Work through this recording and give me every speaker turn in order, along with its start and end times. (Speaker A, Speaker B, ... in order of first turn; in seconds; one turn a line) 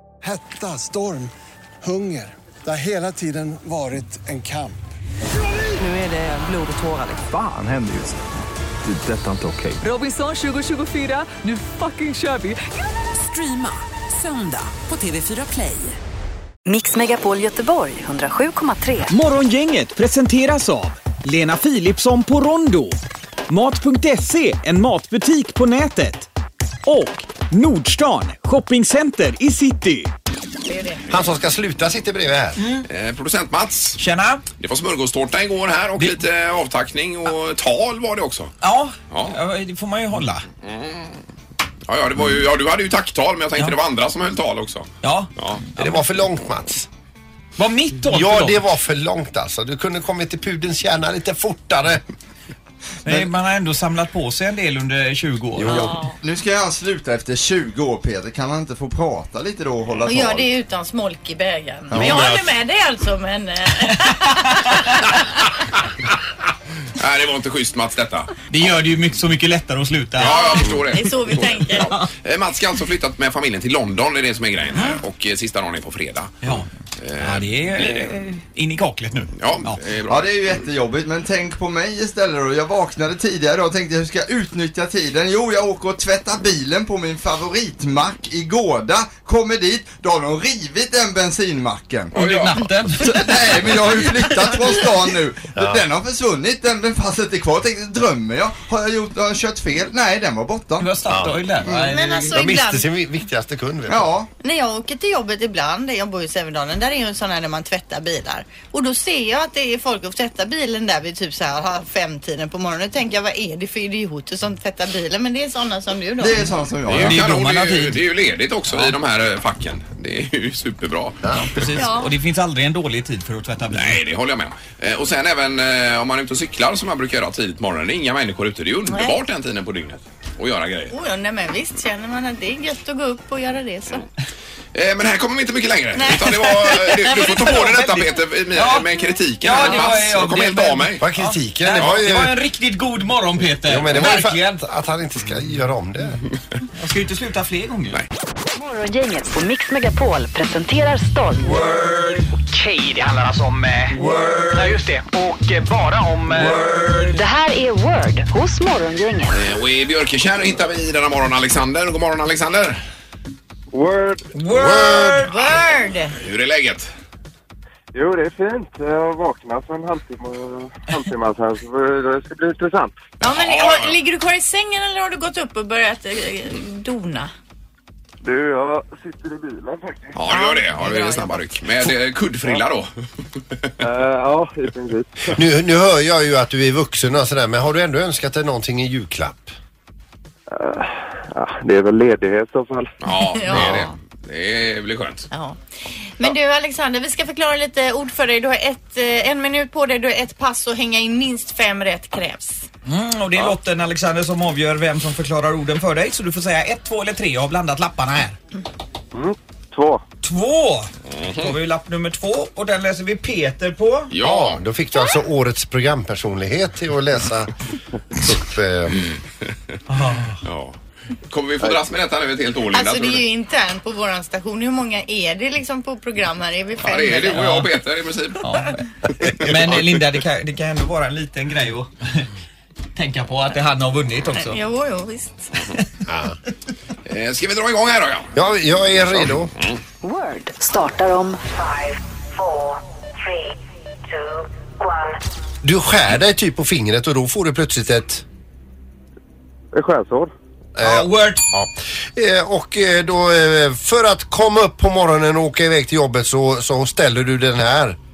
Speaker A: 0.2-1.3
Speaker A: 1.8-4.8
Speaker B: 5.8-7.3
Speaker C: 7.3-8.3
Speaker C: 8.8-9.8
Speaker B: 9.8-16.0
Speaker D: 16.7-19.1
Speaker E: 19.1-23.0
Speaker E: 23.5-26.3
Speaker E: 26.9-30.1
Speaker F: 30.7-31.0
Speaker G: 31.1-32.6
Speaker E: 32.6-32.9
Speaker H: 32.9-34.0
Speaker E: 34.0-34.4
Speaker H: 34.6-38.5
Speaker E: 38.6-40.5
Speaker H: 39.1-39.4
Speaker H: 40.6-41.2
Speaker H: 41.9-45.6
Speaker E: 45.0-46.0
Speaker G: 45.8-46.9
Speaker E: 47.6-48.6
Speaker G: 48.1-52.0
Speaker E: 53.0-56.0
Speaker G: 55.6-56.0
Speaker F: 55.7-56.1
Speaker I: 56.2-60.5
Speaker F: 60.1-65.5
Speaker G: 61.9-62.5
Speaker E: 63.9-65.0
Speaker H: 67.0-68.3
Speaker E: 68.5-70.4
Speaker H: 70.2-78.1
Speaker F: 70.2-71.9
Speaker E: 77.2-79.8
Speaker H: 79.4-80.6
Speaker I: 80.1-92.2
Speaker H: 92.1-92.6
Speaker E: 92.1-94.4
Speaker I: 93.0-100.9
Speaker G: 95.5-95.8
Speaker E: 100.8-102.4
Speaker G: 101.1-104.1
Speaker F: 101.8-102.9
Speaker I: 103.9-104.3
Speaker F: 104.4-116.5
Speaker I: 116.2-117.2
Speaker H: 116.9-121.2
Speaker E: 116.9-118.0
Speaker E: 118.7-119.0
Speaker G: 121.2-121.5
Speaker E: 121.4-124.0
Speaker F: 121.8-122.1
Speaker H: 123.7-130.9
Speaker F: 128.9-129.2
Speaker F: 130.9-134.1
Speaker H: 134.7-141.0
Speaker F: 135.9-137.1
Speaker E: 137.1-138.9
Speaker E: 139.4-144.6
Speaker G: 141.0-142.4
Speaker G: 143.7-146.2
Speaker E: 146.8-148.0
Speaker D: 148.6-151.6
Speaker E: 151.4-152.3
Speaker J: 152.4-156.6
Speaker E: 153.9-154.8
Speaker E: 156.3-157.2
Speaker D: 157.1-159.4
Speaker H: 159.3-162.8
Speaker K: 163.7-164.3
Speaker E: 164.3-165.3
Speaker G: 164.5-165.2
Speaker F: 164.6-166.2
Speaker H: 166.2-166.9
Speaker K: 167.9-173.0
Speaker F: 173.2-177.3
Speaker H: 173.2-174.0
Speaker K: 178.2-180.2
Speaker H: 180.2-182.9
Speaker F: 180.3-181.4
Speaker K: 183.8-185.4
Speaker G: 185.3-189.6
Speaker K: 190.5-192.9
Speaker H: 193.0-195.3
Speaker F: 193.3-193.9
Speaker F: 195.3-195.6
Speaker F: 196.2-202.7
Speaker E: 202.9-208.4
Speaker K: 209.1-210.0
Speaker E: 210.2-214.1
Speaker H: 211.1-211.5
Speaker H: 214.1-214.6
Speaker G: 214.2-217.5
Speaker G: 218.2-218.9
Speaker E: 219.9-220.4
Speaker H: 220.4-220.8
Speaker H: 221.3-223.2
Speaker F: 222.7-227.6
Speaker H: 226.8-228.4
Speaker E: 227.3-227.7
Speaker E: 228.4-232.3
Speaker E: 233.0-234.6
Speaker F: 234.4-235.5
Speaker G: 236.1-236.4
Speaker H: 237.1-238.3
Speaker G: 238.3-239.5
Speaker H: 239.1-239.8
Speaker D: 240.0-242.0
Speaker G: 245.6-248.2
Speaker K: 249.7-250.3
Speaker G: 250.8-258.0
Speaker E: 250.8-251.5